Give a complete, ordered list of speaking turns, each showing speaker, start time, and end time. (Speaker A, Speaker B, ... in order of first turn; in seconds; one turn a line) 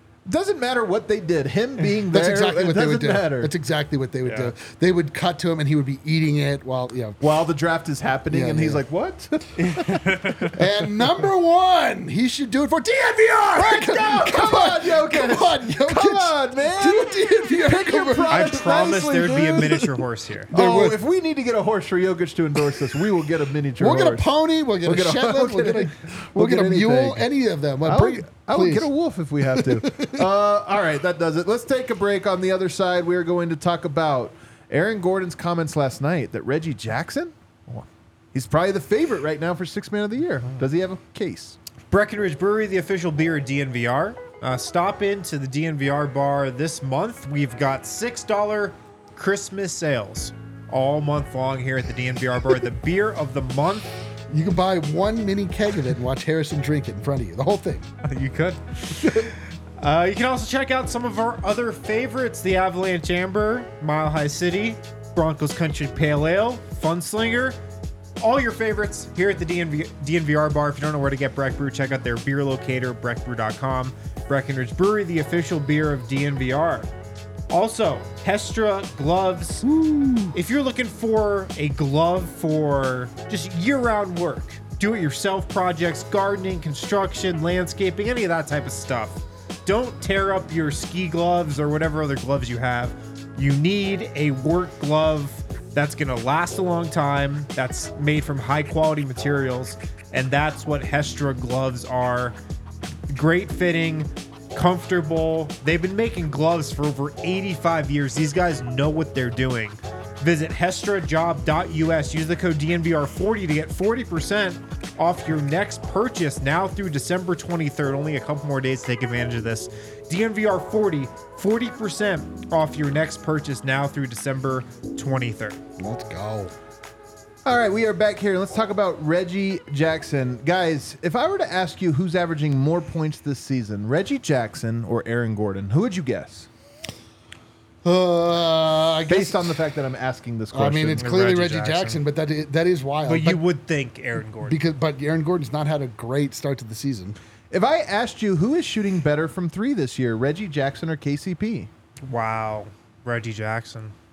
Speaker A: 0.2-3.5
Speaker B: 2.1-7.2
Speaker C: 4.2-4.5
Speaker A: 7.2-10.5
Speaker B: 8.3-8.8
Speaker C: 9.6-10.6
Speaker B: 10.6-18.4
Speaker A: 13.5-19.9
Speaker C: 18.3-20.5
Speaker B: 20.5-21.0
Speaker A: 20.5-24.3
Speaker B: 23.8-28.9
Speaker A: 24.8-27.2
Speaker A: 27.8-41.6
Speaker B: 29.6-30.2
Speaker C: 41.9-53.9
Speaker B: 54.3-57.9
Speaker C: 58.0-67.6
Speaker B: 59.0-59.3
Speaker C: 68.2-76.9
Speaker C: 77.5-79.7
Speaker A: 79.6-80.3
Speaker C: 80.3-102.3
Speaker C: 103.1-125.6
Speaker B: 125.8-126.5
Speaker A: 127.4-136.5
Speaker B: 137.8-139.6
Speaker A: 139.1-141.1
Speaker B: 140.5-143.4
Speaker C: 141.0-142.0
Speaker C: 143.1-144.6
Speaker B: 144.4-147.2
Speaker A: 147.5-151.7
Speaker C: 152.0-153.9